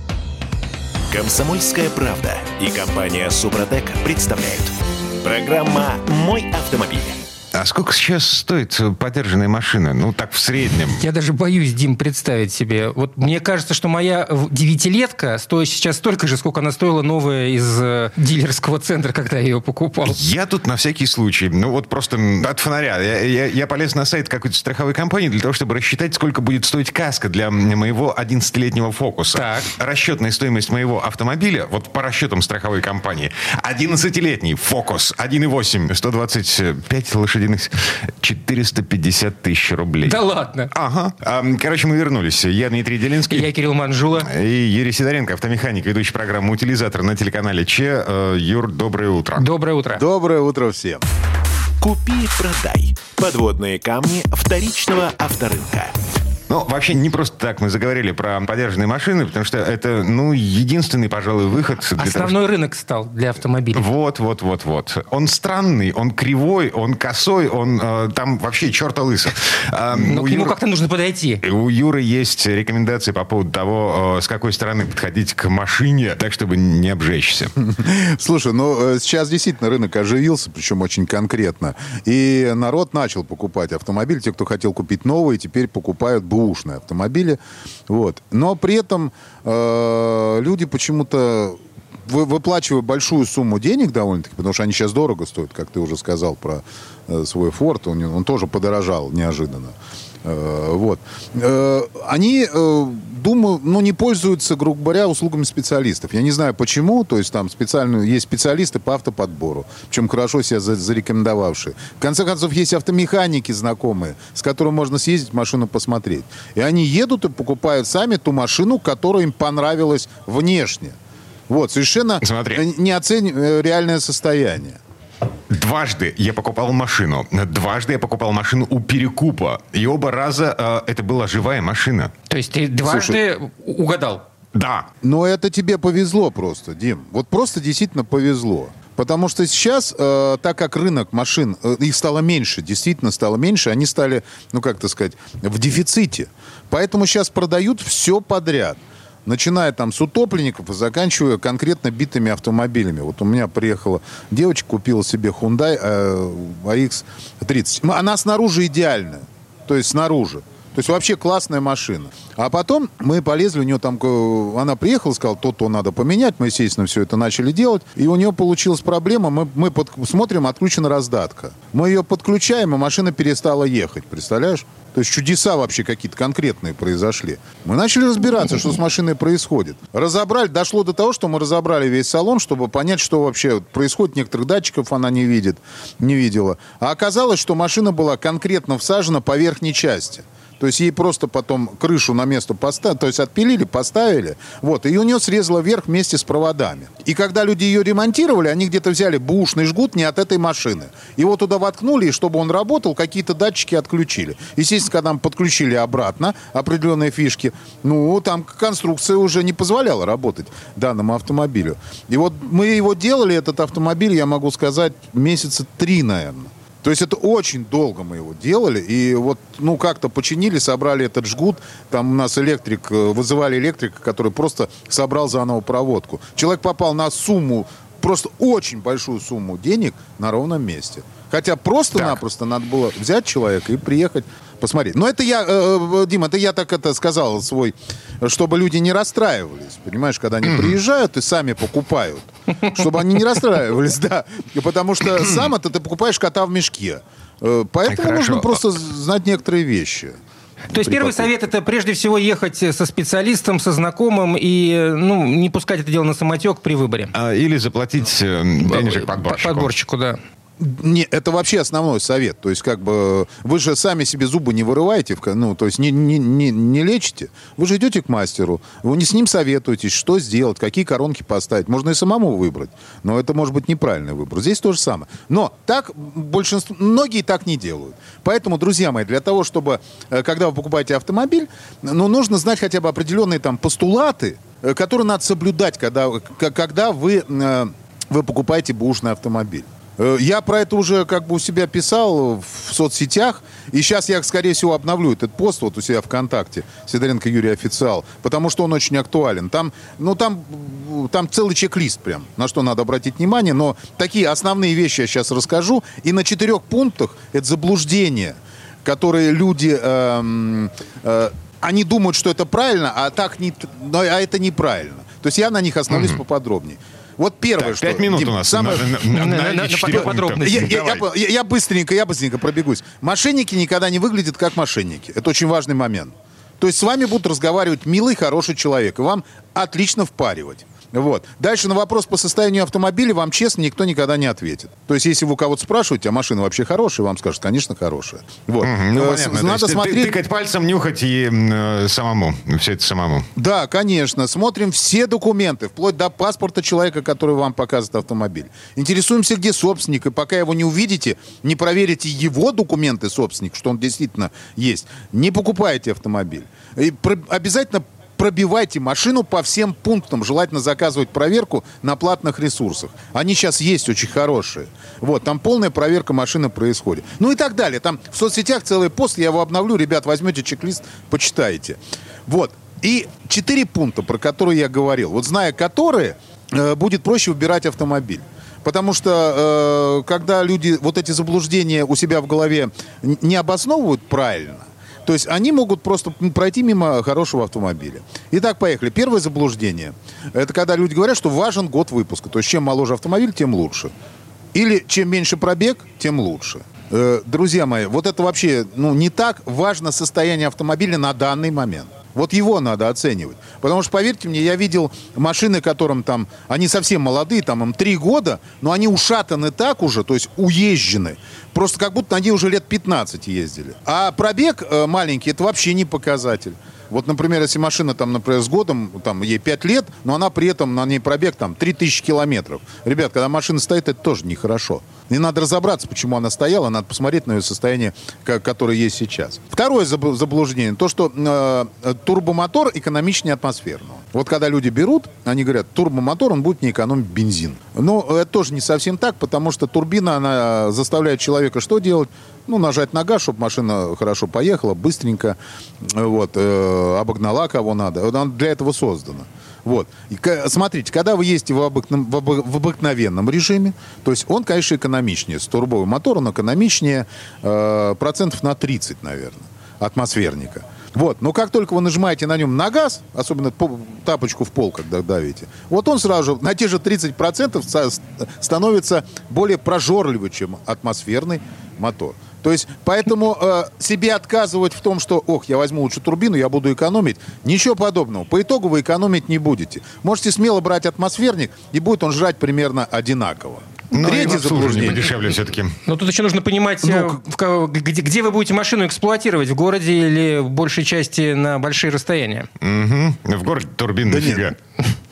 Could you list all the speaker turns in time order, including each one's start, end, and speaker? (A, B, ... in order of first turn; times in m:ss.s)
0:01.1-0:07.2 A
0:07.5-0:11.0 B
0:11.0-0:20.2 C
0:20.0-0:40.2 B
0:29.4-0:29.7 C
0:40.1-0:40.7 C
0:40.7-0:43.5 B
0:43.3-0:44.3 C
0:44.2-0:49.5 B
0:49.4-0:50.0 C
0:50.0-0:51.0 D
0:51.8-0:55.9 A
0:56.5-1:02.4 B
1:02.0-1:03.8 C
1:03.7-1:10.6 B
1:09.9-1:11.4 C
1:11.4-1:17.5 B
1:17.6-2:01.0 D
2:01.5-2:04.8 D
2:02.2-2:02.6 B
2:05.5-2:12.1 B
2:12.3-2:14.2 C
2:12.8-2:13.2 D
2:14.6-2:14.9 B
2:15.0-4:10.2 D
3:51.9-3:52.2 B
4:00.5-4:00.8 B
4:07.9-4:08.6 B
4:10.7-4:17.1 C
4:10.7-4:11.3 D
4:17.1-4:19.7 B
4:18.7-4:20.2 C
4:20.6-5:19.3 D
5:15.9-5:16.2 B
5:17.6-5:21.0 B
5:19.1-5:20.7 C
5:19.9-5:40.2 D
5:38.6-5:43.3 B
5:43.4-6:33.9 D
6:34.5-8:05.1 D
8:03.9-8:05.7 B
8:05.9-8:12.5 C
8:06.8-8:07.2 D
8:12.6-8:14.6 B
8:14.1-8:14.5 D